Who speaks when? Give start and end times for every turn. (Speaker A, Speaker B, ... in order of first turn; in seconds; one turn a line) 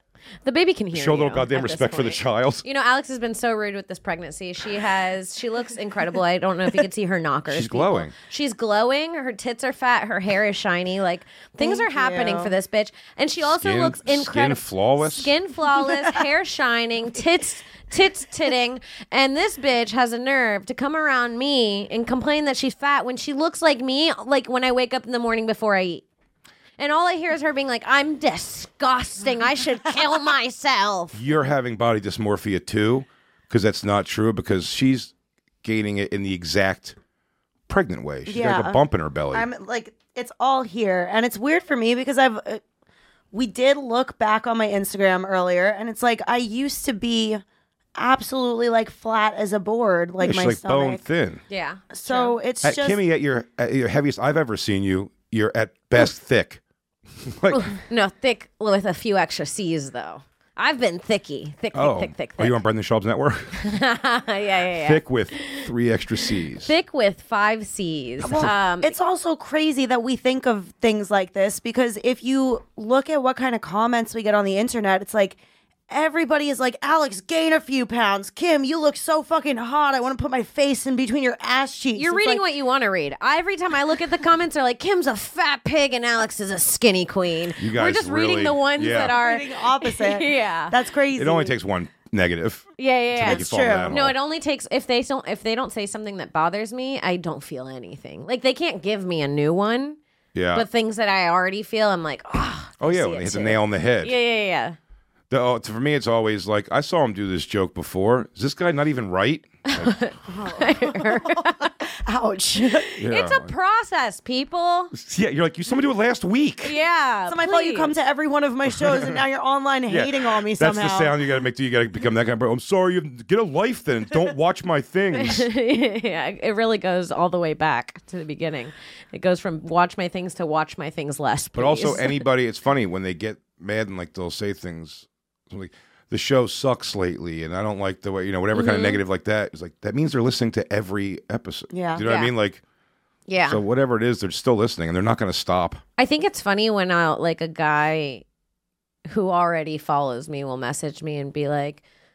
Speaker A: 0.4-26.0
Speaker B: 0.9-2.6
Speaker B: 7.5-8.1
Speaker C: 11.6-12.6
Speaker B: 13.4-15.3
Speaker A: 26.8-31.2
Speaker B: 31.1-37.0
Speaker B: 37.7-39.5
Speaker C: 38.3-38.8
Speaker C: 39.3-42.6
Speaker C: 43.3-47.4
Speaker C: 48.0-51.0
Speaker B: 50.2-51.4
Speaker A: 51.5-52.4
Speaker C: 51.9-53.0
Speaker B: 52.6-56.6
Speaker B: 57.2-57.7
Speaker A: 57.5-62.6
Speaker B: 61.7-63.6
Speaker A: 63.6-65.7
Speaker B: 64.8-66.7
Speaker A: 66.2-68.9
Speaker C: 68.2-82.4
Speaker A: 82.0-90.8
Speaker B: 87.6-89.2
Speaker C: 88.9-91.5
Speaker B: 91.1-94.2
Speaker A: 92.8-100.0
Speaker C: 93.2-94.0
Speaker B: 100.3-100.7
Speaker A: 100.5-104.8
Speaker B: 102.8-104.1
Speaker B: 105.3-109.9
Speaker A: 109.7-111.7
Speaker C: 110.3-112.9
Speaker A: 112.7-114.9
Speaker B: 113.0-113.5
Speaker B: 114.9-116.8
Speaker A: 116.6-118.0
Speaker C: 117.3-121.1
Speaker B: 118.8-119.2
Speaker B: 119.9-125.5
Speaker A: 125.2-132.2
Speaker B: 131.6-142.6
Speaker A: 138.5-139.0
Speaker C: 141.7-142.1
Speaker A: 142.0-142.3
Speaker A: 143.3-143.6
Speaker B: 143.5-145.8
Speaker A: 146.0-148.2
Speaker A: 149.1-151.8